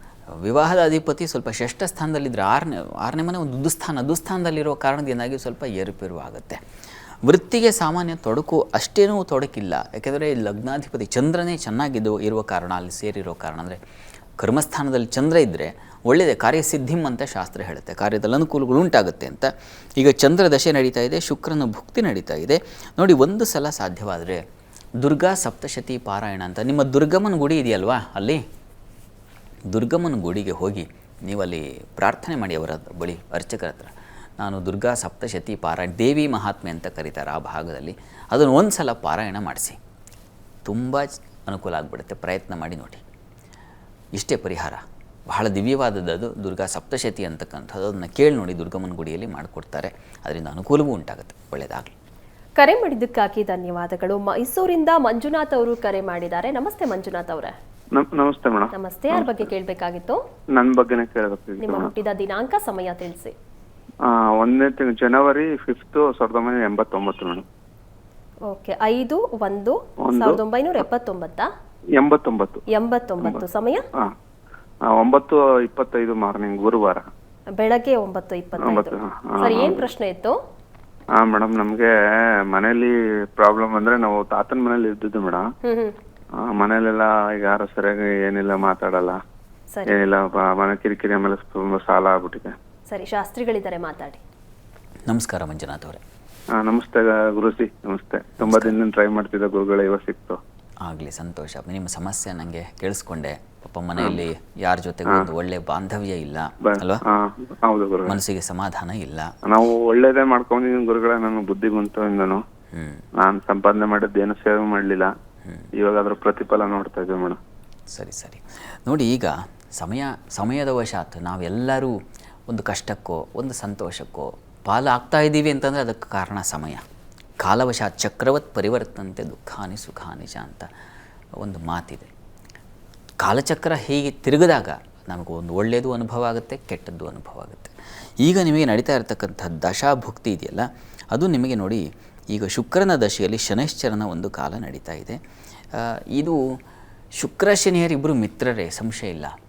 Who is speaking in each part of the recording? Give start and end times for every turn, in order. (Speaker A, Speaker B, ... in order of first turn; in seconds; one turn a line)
Speaker A: 0.4-6.6
Speaker A: 7.2-13.8
Speaker A: 14.4-24.4
Speaker A: 25.0-28.4
Speaker A: 29.7-39.8
Speaker A: 40.6-43.0
Speaker A: 44.2-51.9
Speaker B: 52.6-57.5
Speaker C: 57.9-59.5
Speaker B: 58.7-60.2
Speaker C: 60.5-61.9
Speaker B: 61.6-63.3
Speaker C: 64.0-67.4
Speaker B: 68.5-71.5
Speaker C: 70.0-70.4
Speaker C: 72.0-72.7
Speaker B: 72.7-73.8
Speaker C: 74.9-77.1
Speaker B: 77.6-80.4
Speaker C: 78.6-79.9
Speaker C: 81.2-81.9
Speaker C: 82.5-85.4
Speaker B: 85.6-86.0
Speaker C: 86.4-89.2
Speaker C: 89.9-92.5
Speaker B: 92.9-94.2
Speaker A: 95.1-96.0
Speaker C: 96.5-100.4
Speaker A: 98.4-98.8
Speaker A: 100.8-107.0
Speaker C: 104.0-104.2
Speaker C: 106.7-108.2
Speaker A: 108.1-109.3
Speaker C: 109.4-112.4
Speaker A: 112.7-113.0
Speaker C: 113.2-115.1
Speaker C: 115.8-117.4
Speaker A: 117.9-121.9
Speaker A: 122.5-126.8
Speaker A: 127.4-130.7
Speaker A: 131.4-132.1
Speaker A: 133.2-145.2
Speaker A: 145.8-146.4
Speaker A: 147.2-149.3